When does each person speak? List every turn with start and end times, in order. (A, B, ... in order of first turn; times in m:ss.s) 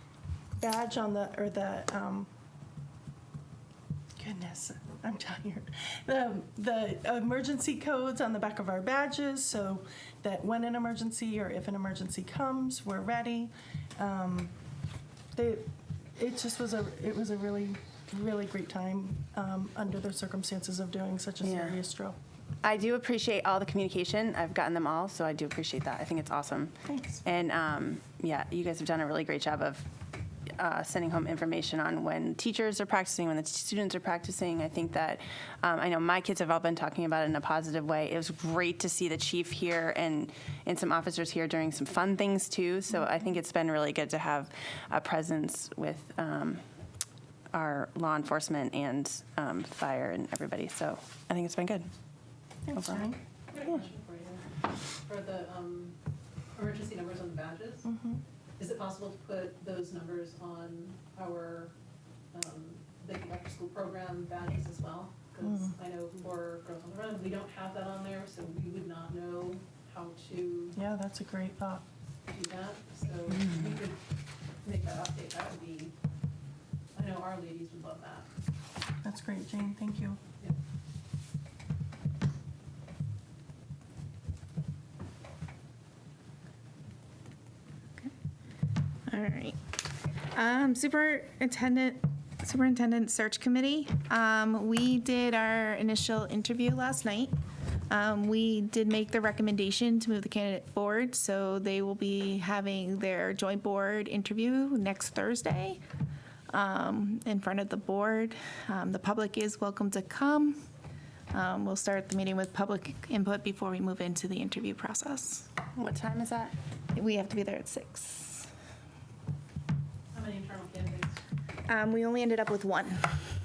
0:00.6-0:02.3 A
0:04.2-0:14.5 A
0:15.3-0:22.2 A
0:21.4-0:21.8 B
0:22.6-0:26.7 B
0:26.9-0:27.2 A
0:27.2-0:29.9 B
0:30.6-0:46.6 B
0:47.5-0:51.9 B
0:52.7-0:53.2 A
0:52.8-0:53.1 B
0:53.5-0:54.4 C
0:55.0-0:56.0 C
0:56.6-0:57.9 C
0:57.8-0:58.2 A
0:58.6-1:01.7 C
1:02.3-1:10.8 C
1:05.4-1:05.8 A
1:10.8-1:11.8 A
1:12.3-1:14.0 C
1:14.6-1:15.9 C
1:17.0-1:18.3 C
1:19.0-1:20.2 A
1:29.1-1:29.6 D
1:30.3-1:37.3 D
1:37.9-1:45.8 D
1:46.5-1:50.6 D
1:51.3-1:55.5 D
1:55.8-1:56.5 B
1:56.9-1:58.5 D
2:00.1-2:01.2 C
2:01.7-2:03.1 D